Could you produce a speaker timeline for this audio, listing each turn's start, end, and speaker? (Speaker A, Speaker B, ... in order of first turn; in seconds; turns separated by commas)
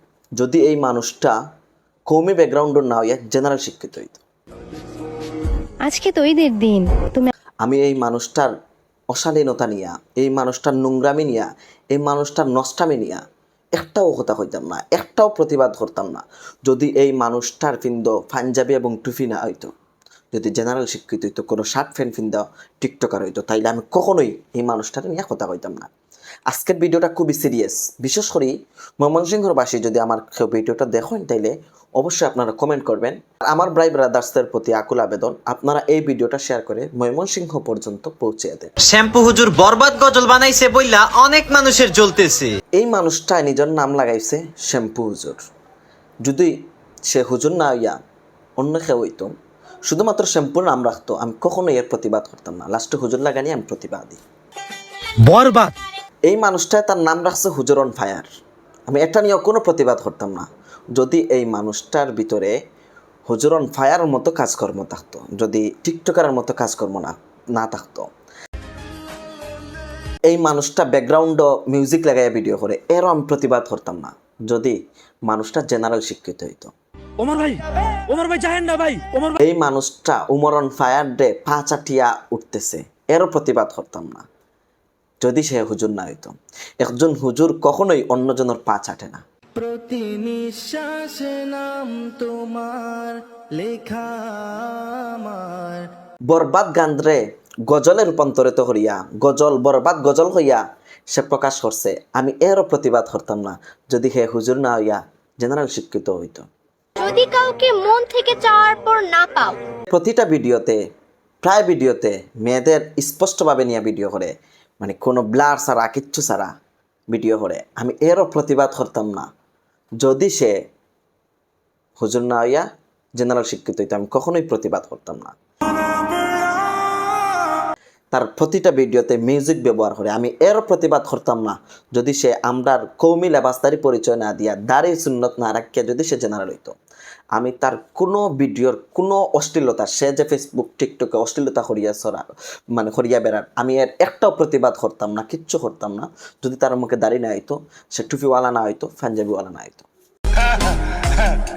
Speaker A: 0.4-1.4, Speaker A: 2.1-4.2, Speaker B: 5.8-7.3, Speaker A: 7.6-8.5, Speaker A: 9.1-13.2, Speaker A: 13.8-19.7, Speaker A: 20.3-25.9, Speaker A: 26.5-38.7, Speaker C: 38.8-42.6, Speaker A: 42.8-45.4, Speaker A: 46.2-46.5, Speaker A: 47.1-48.0, Speaker A: 48.6-49.3, Speaker A: 49.9-54.2, Speaker D: 55.2-55.8, Speaker A: 56.3-58.3, Speaker A: 58.9-62.5, Speaker A: 63.3-68.1, Speaker A: 70.3-74.8, Speaker A: 75.3-76.7, Speaker D: 77.2-79.4, Speaker A: 79.4-84.2, Speaker A: 85.2-89.2, Speaker E: 89.6-95.9, Speaker A: 96.3-106.5, Speaker B: 107.0-109.6, Speaker A: 109.9-110.8, Speaker A: 111.4-116.5, Speaker A: 117.1-119.3, Speaker A: 120.0-120.6, Speaker A: 122.0-122.7, Speaker A: 123.2-125.3, Speaker A: 128.1-136.7, Speaker A: 137.3-149.9